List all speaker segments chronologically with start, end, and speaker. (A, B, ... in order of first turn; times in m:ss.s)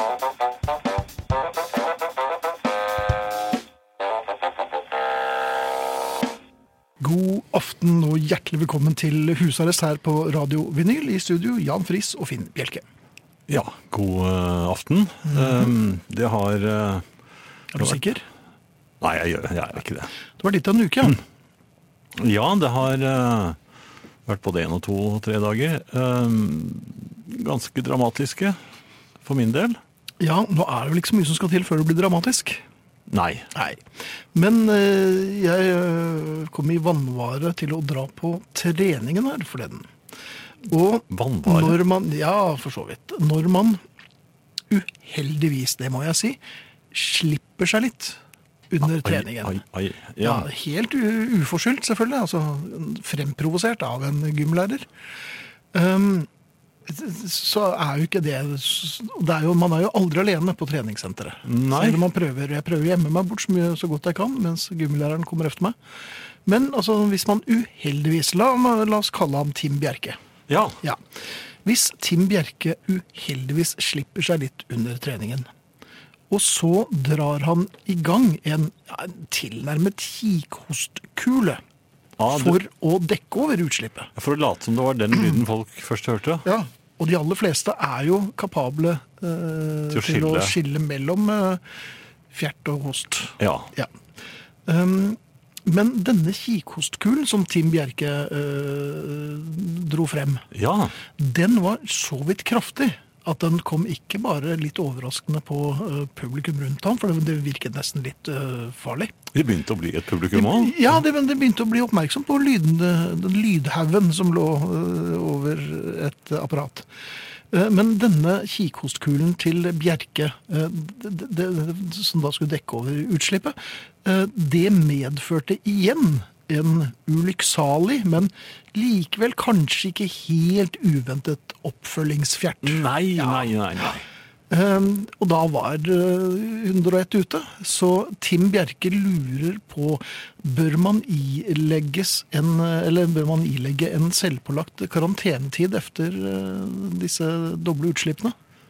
0:07.0-0:12.8 A
0:13.5-0:17.0 B
0:15.2-0:15.7 A
0:17.7-0:18.2 A
0:19.0-0:20.1 B
0:20.4-0:21.2 A
0:22.2-0:23.6 B
0:24.3-0:28.6 B
0:29.2-0:29.8 B
0:30.2-0:32.6 A
0:33.1-0:33.5 B
0:33.5-0:33.8 A
0:34.3-0:39.9 A
0:40.7-0:43.8 A
0:41.1-0:41.8 B
0:44.7-0:46.4 A
0:46.9-0:48.2 A
0:48.7-0:49.6 A
0:48.9-0:50.5 B
0:50.2-0:54.9 A
0:55.7-0:56.3 A
0:56.9-1:05.8 A
1:01.4-1:02.0 B
1:06.4-1:10.2 A
1:10.5-1:10.8 B
1:11.6-1:15.5 A
1:16.3-1:21.6 A
1:22.2-1:22.6 B
1:22.3-1:24.1 A
1:24.2-1:26.4 B
1:26.4-1:31.6 A
1:29.9-1:30.5 B
1:32.3-1:33.9 A
1:33.4-1:33.7 B
1:34.7-1:40.4 A
1:40.5-1:40.9 B
1:41.2-1:49.1 A
1:49.3-1:50.9 B
1:50.3-1:56.9 A
1:57.5-2:13.5 A
2:12.6-2:14.0 B
2:14.5-2:28.3 A